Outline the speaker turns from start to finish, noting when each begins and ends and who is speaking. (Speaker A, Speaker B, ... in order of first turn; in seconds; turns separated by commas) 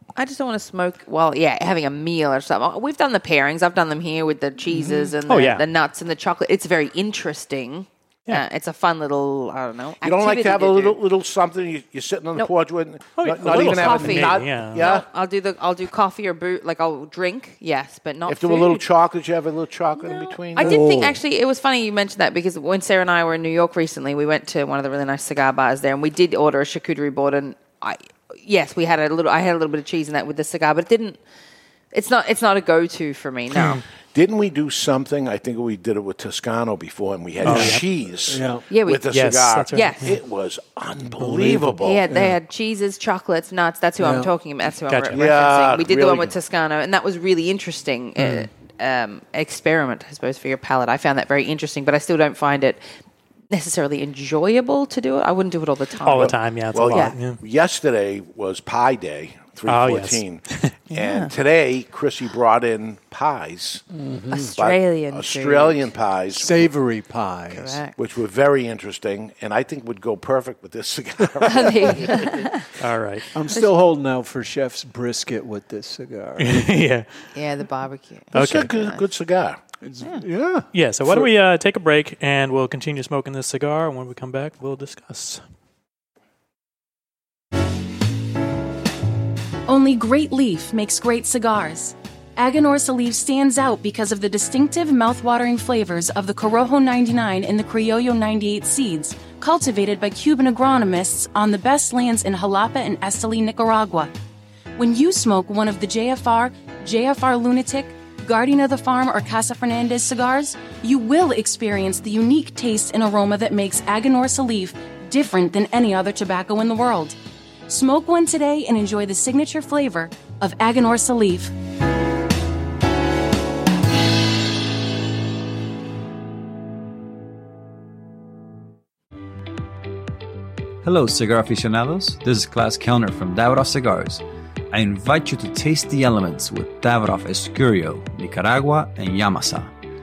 Speaker A: 0.1-11.0, Speaker B: 4.7-5.1, Speaker C: 5.3-5.6, Speaker D: 10.0-15.0, Speaker C: 13.2-14.8, Speaker A: 13.5-18.8, Speaker D: 18.3-20.8, Speaker A: 20.0-31.2, Speaker B: 20.6-21.2, Speaker A: 31.9-33.8, Speaker C: 33.5-33.8, Speaker D: 34.1-42.0, Speaker C: 37.4-37.8, Speaker B: 37.4-38.6, Speaker A: 38.7-39.1, Speaker C: 39.1-40.1, Speaker A: 39.7-40.0, Speaker B: 41.1-42.4, Speaker A: 41.8-52.8, Speaker B: 44.0-44.3, Speaker C: 44.9-45.2, Speaker D: 45.1-46.3, Speaker C: 48.2-48.5, Speaker A: 53.5-56.3, Speaker C: 56.0-57.4, Speaker D: 56.1-63.8, Speaker A: 56.9-57.1, Speaker C: 59.6-60.7, Speaker A: 60.9-61.3, Speaker B: 63.9-64.5, Speaker A: 64.3-65.9, Speaker D: 64.6-66.7, Speaker B: 66.3-67.8, Speaker A: 67.5-67.9, Speaker D: 68.0-72.5, Speaker A: 71.4-72.7, Speaker C: 72.8-73.2, Speaker B: 73.3-76.8, Speaker C: 76.4-77.2, Speaker A: 77.3-79.0, Speaker D: 78.3-79.6, Speaker C: 78.3-78.7, Speaker B: 79.8-81.3, Speaker C: 80.7-85.4, Speaker E: 89.7-104.1, Speaker E: 104.8-117.2, Speaker E: 117.7-121.5, Speaker F: 130.8-139.7